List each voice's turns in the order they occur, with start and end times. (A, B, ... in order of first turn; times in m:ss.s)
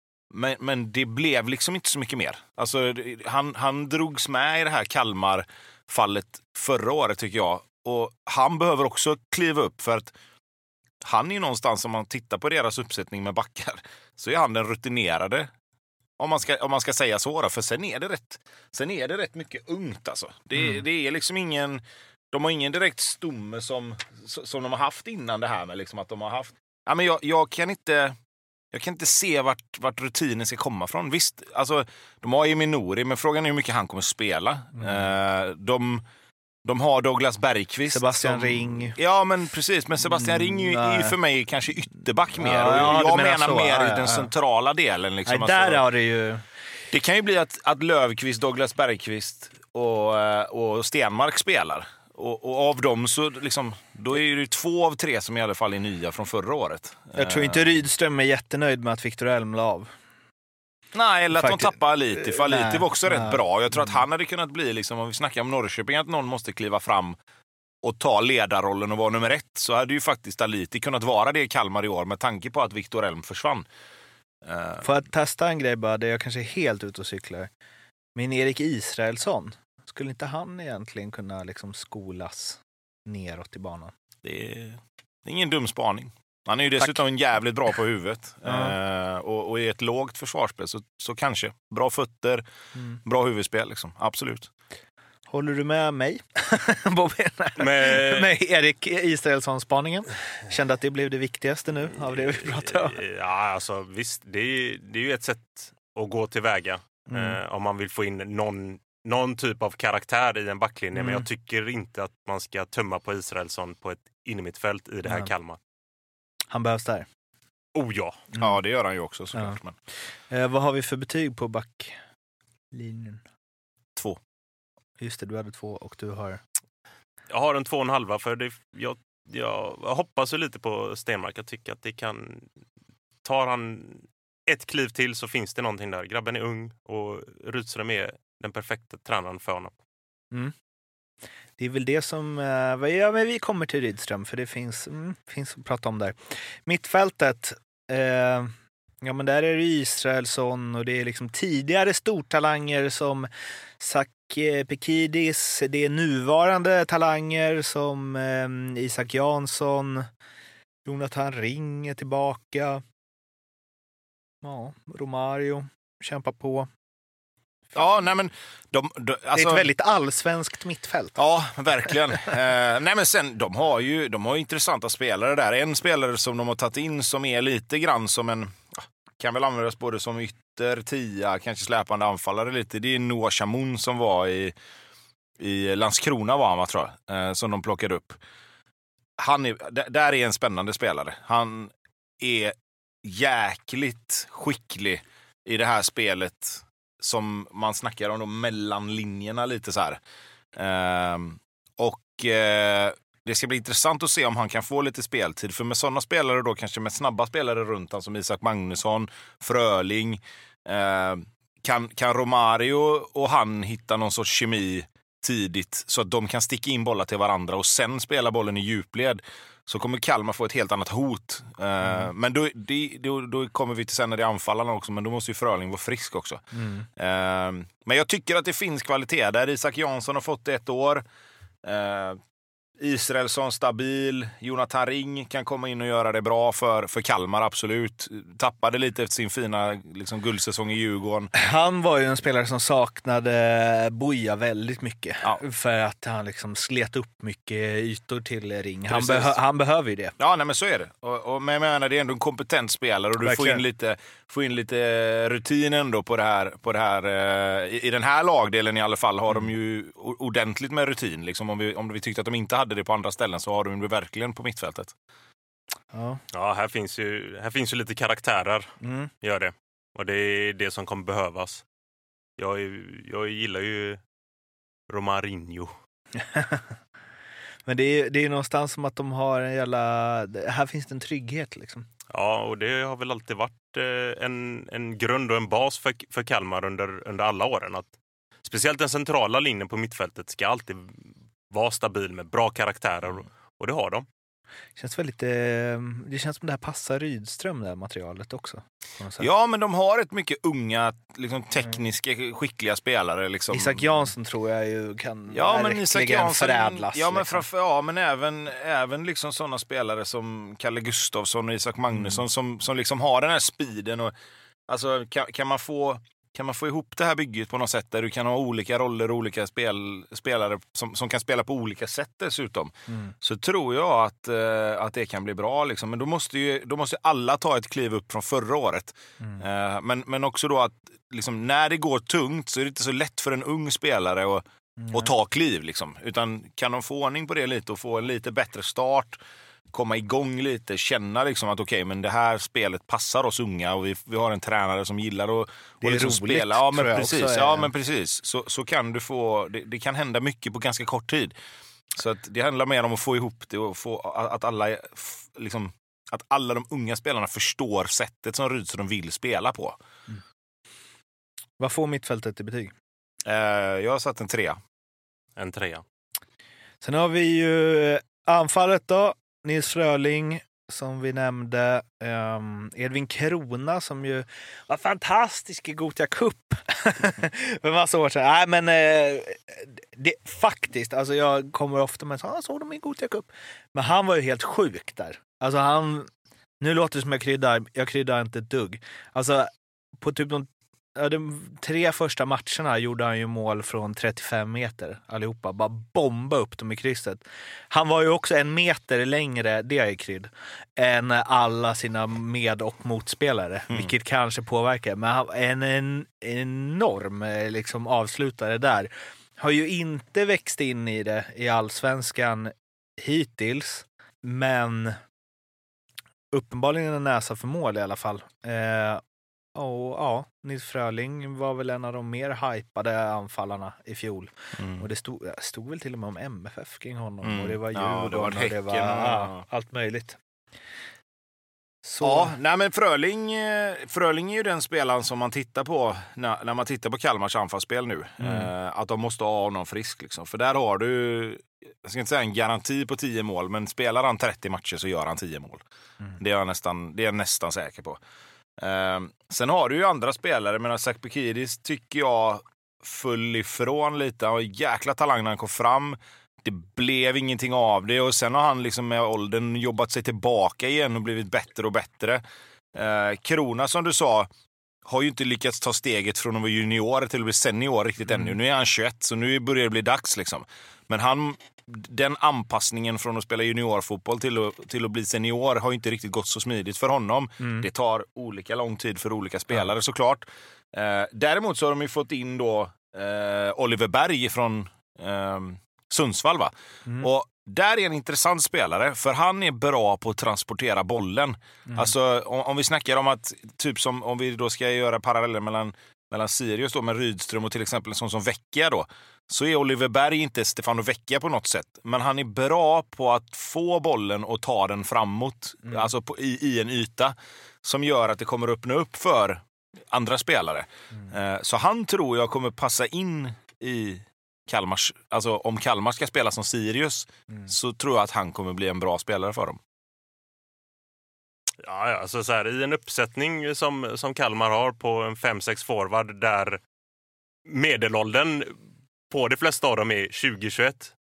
0:00.3-0:10.1 A
0:11.0-0:15.5 A
0:16.2-0:28.2 A
0:20.6-0:20.8 B
0:28.7-0:36.0 A
0:34.8-0:35.1 B
0:36.6-0:45.8 A
0:37.9-0:39.0 B
0:40.0-0:41.2 B
0:42.4-0:44.3 B
0:45.2-0:46.4 B
0:46.9-0:57.7 A
0:57.1-0:59.9 B
1:00.9-1:07.2 A
1:01.3-1:04.0 B
1:07.8-1:13.6 A
1:14.4-1:14.9 A
1:14.8-1:17.5 B
1:18.1-1:23.9 B
1:24.2-1:32.4 A
1:28.4-1:28.8 B
1:32.7-1:33.0 B
1:33.0-1:34.5 A
1:35.3-1:43.0 B
1:37.6-1:38.3 C
1:42.1-1:55.6 C
1:47.1-1:47.4 B
1:50.9-1:51.2 B
1:55.0-1:55.3 B
1:56.5-1:57.0 B
1:57.7-1:58.2 C
1:58.4-1:59.8 A
2:00.3-2:02.0 B
2:02.7-2:03.2 B
2:05.0-2:06.4 B
2:07.3-2:12.5 C
2:13.2-2:19.7 C
2:21.6-2:40.1 B
2:40.8-2:42.8 B
2:44.4-2:46.7 B
2:47.7-2:49.7 A
2:49.3-2:51.2 B
2:51.2-3:04.5 A
3:05.4-3:08.2 A
3:09.2-3:20.0 A
3:20.5-3:46.4 A
3:41.8-3:42.1 B
3:46.5-3:46.9 B
3:47.0-3:51.0 A
3:51.6-3:52.2 A
3:52.8-4:01.3 A
4:01.3-4:10.1 B
4:08.9-4:09.4 A
4:10.2-4:24.9 A
4:13.2-4:13.6 B
4:25.9-4:26.2 B
4:26.3-4:31.6 C
4:28.8-4:29.1 B
4:32.4-4:34.0 C
4:34.9-4:35.7 C
4:36.2-4:36.7 B
4:37.6-4:41.9 B
4:42.1-4:47.9 C
4:48.4-4:54.0 C
4:54.8-4:59.3 B
4:59.2-5:03.9 A
5:03.5-5:07.4 B
5:05.3-5:14.1 A
5:11.9-5:12.2 B
5:14.7-5:39.2 A
5:22.9-5:23.1 B
5:34.8-5:35.1 B
5:39.7-5:51.3 A
5:45.8-5:47.7 B
5:51.9-5:59.8 A
6:01.6-6:02.7 B
6:03.2-6:04.6 A
6:05.4-6:05.8 C
6:06.8-6:29.5 B
6:30.0-6:55.0 B
6:56.3-6:59.0 B
6:59.5-7:10.2 B
7:04.6-7:04.8 A
7:07.2-7:09.4 A
7:11.8-7:12.3 B
7:12.0-7:25.6 A
7:18.2-7:18.5 B
7:26.2-7:28.0 A
7:28.6-7:42.2 A
7:42.7-7:44.3 A
7:44.8-8:39.6 A
7:57.4-7:57.6 B
8:41.6-8:46.6 C
8:47.4-8:48.6 C
8:49.1-8:50.9 C